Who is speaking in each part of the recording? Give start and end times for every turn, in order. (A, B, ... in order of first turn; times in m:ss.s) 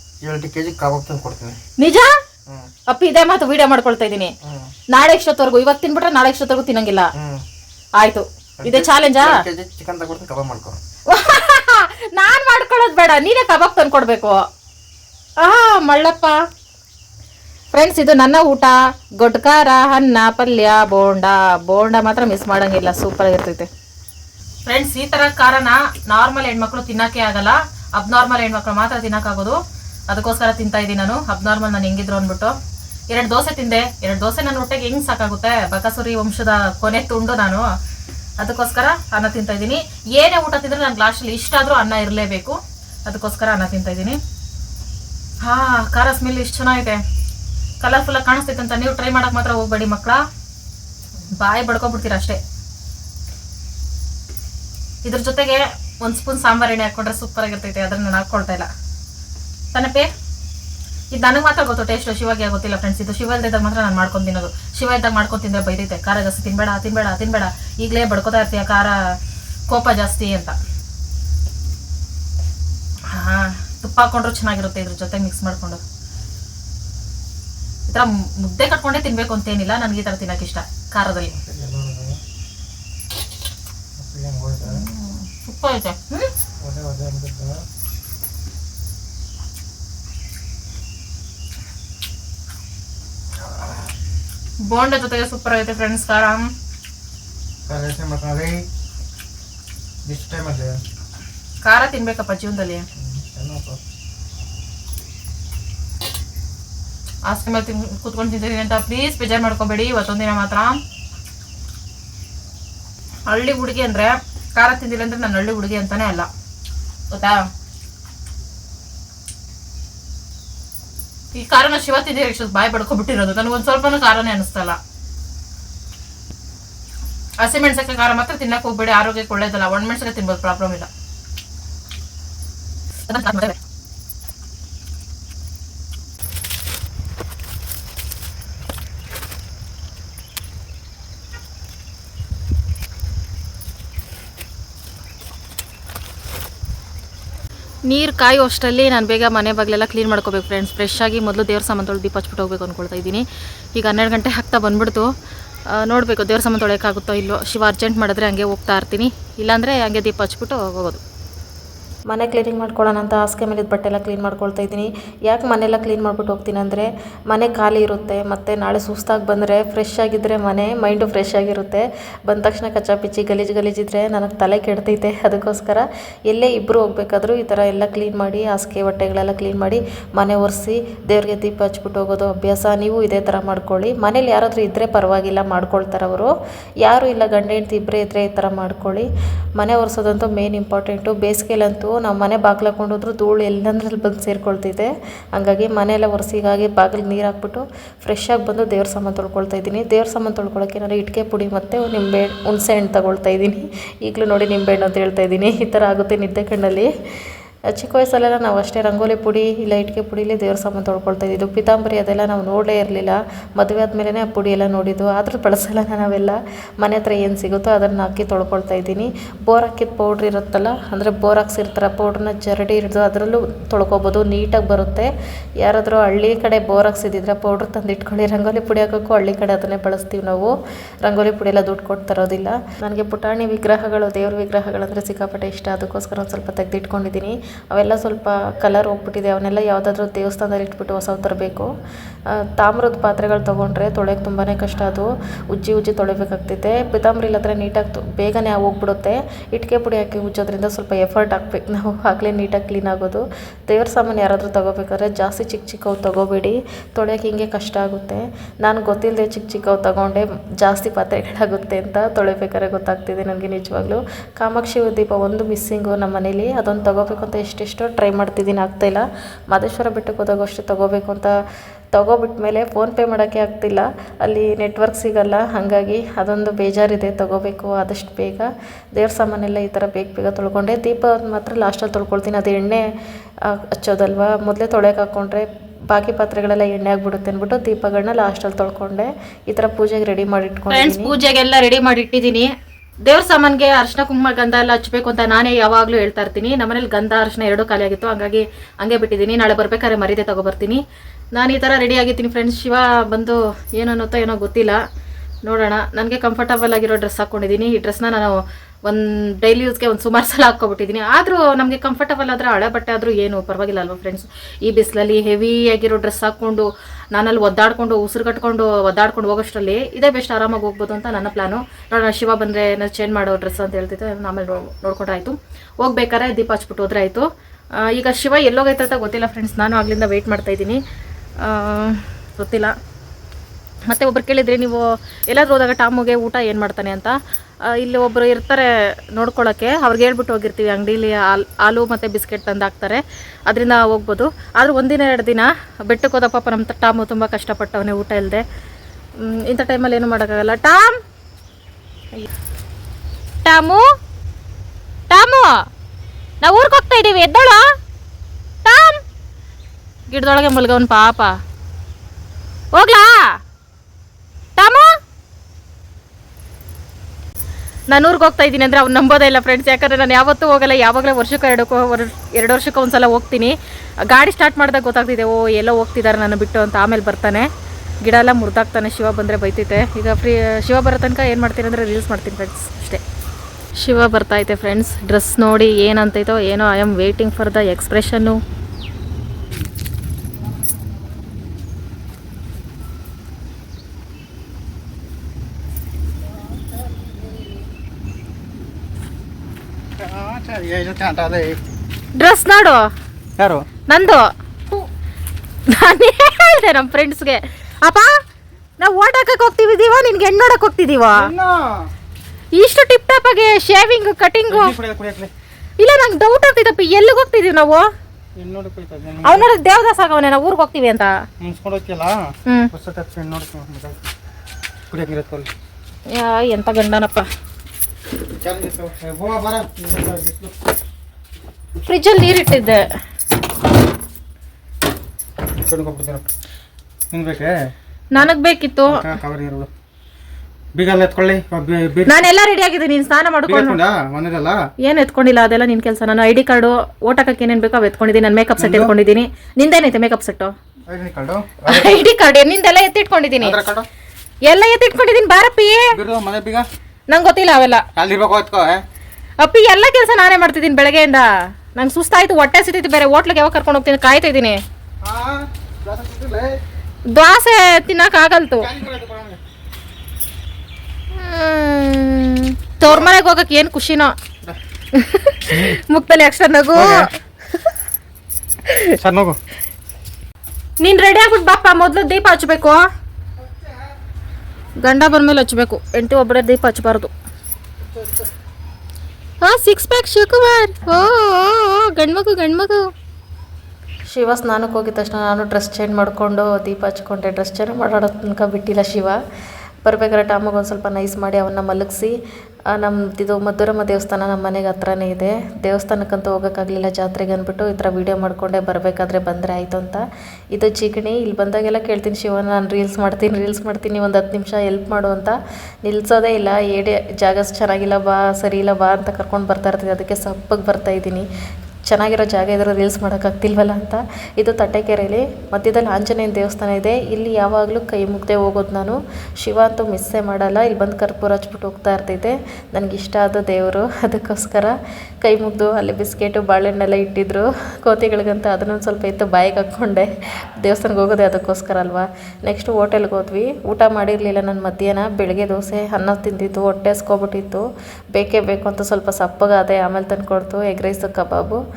0:00.2-0:01.6 A
0:01.8-0:02.1 B
0:02.9-0:04.3 B
0:04.4-0:04.7 A
0:04.9-0:07.1 B
0:07.2-0:07.4 A
0:08.0-0:09.4 B
0:08.6-0:10.8 A
0:11.1-0:14.4 B
0:15.4-0:16.4 B
0:17.7-0:23.7 B
0:24.7-0:29.6 B
0:30.1-0:32.6 B
0:33.1-0:37.6 B
0:38.4-0:44.2 B
0:45.4-0:47.0 B
0:47.8-0:50.2 B
0:51.4-0:52.4 B
0:55.0-0:58.7 B
0:59.7-1:00.1 B
1:01.1-1:09.2 B
1:09.7-1:10.6 B
1:13.1-1:15.8 B
1:17.9-1:21.4 B
1:21.4-1:22.2 A
1:24.0-1:24.8 A
1:24.6-1:26.3 B
1:26.6-1:27.6 A
1:34.6-1:36.5 B
1:37.7-1:38.7 A
1:40.0-1:40.8 A
1:41.6-1:42.8 B
1:43.0-1:43.8 A
1:47.3-1:50.8 B
1:53.3-1:56.3 B
1:57.1-1:57.5 B
2:01.4-2:04.8 B
2:07.4-2:10.9 B
2:13.1-2:13.6 B
2:27.9-2:35.1 B
2:35.7-2:41.0 B
2:42.1-3:06.3 C
3:06.8-3:26.9 C
3:27.7-3:45.1 C
3:45.6-3:50.5 C
3:51.0-4:01.7 C
4:02.3-4:31.3 C
4:32.0-4:42.8 C
4:43.4-4:51.2 C
4:50.7-4:52.5 B
4:53.1-5:00.8 B
5:01.4-5:04.8 B
5:05.5-5:27.3 B
5:27.8-5:30.8 B
5:31.4-5:32.7 B
5:33.9-5:37.2 B
5:37.7-5:48.4 B
5:49.2-5:51.0 B
5:53.4-5:53.8 B
5:55.1-5:55.5 B
5:56.4-5:57.6 B
5:58.6-5:59.0 B
6:00.1-6:01.3 B
6:02.8-6:03.2 B
6:04.6-6:04.9 B
6:07.9-6:17.5 B
6:18.0-6:23.0 B
6:23.8-6:28.4 B
6:40.0-6:41.6 A
6:42.2-6:42.8 B
6:43.4-6:43.6 A
6:43.9-6:44.2 B
6:45.7-6:48.1 B
6:48.8-6:51.3 B
6:51.1-6:51.9 A
6:52.5-6:54.8 B
6:54.5-6:55.3 A
6:55.8-6:57.8 B
6:58.4-6:59.5 A
6:59.2-7:01.1 B
7:01.4-7:04.0 A
7:04.9-7:05.5 A
7:06.1-7:07.3 B
7:08.4-7:10.6 A
7:11.8-7:12.9 B
7:15.6-7:16.2 A
7:17.1-7:18.2 A
7:18.1-7:19.1 B
7:18.9-7:19.7 A
7:20.8-7:22.2 A
7:22.1-7:23.8 B
7:23.5-7:24.6 A
7:24.8-7:30.5 B
7:28.6-7:28.9 A
7:30.9-7:32.0 A
7:31.7-7:33.6 B
7:33.4-7:33.9 A
7:34.4-7:35.9 B
7:35.9-7:36.7 A
7:37.1-7:37.8 B
7:38.0-7:38.8 A
7:39.4-7:44.6 B
7:45.0-7:46.6 A
7:47.1-7:48.7 B
7:48.6-7:49.4 A
7:51.1-7:54.1 B
7:54.9-7:57.1 B
7:55.5-7:55.8 A
7:56.7-7:57.1 A
7:59.0-7:59.4 A
8:00.8-8:02.8 B
8:04.8-8:07.1 B
8:08.0-8:08.3 A
8:09.4-8:12.8 B
8:14.1-8:19.2 C
8:19.9-8:22.1 C
8:22.8-8:30.0 C
8:30.5-8:35.4 C
8:35.9-8:41.2 C
8:41.9-9:00.1 C
9:00.6-9:07.6 C
9:08.2-9:11.6 C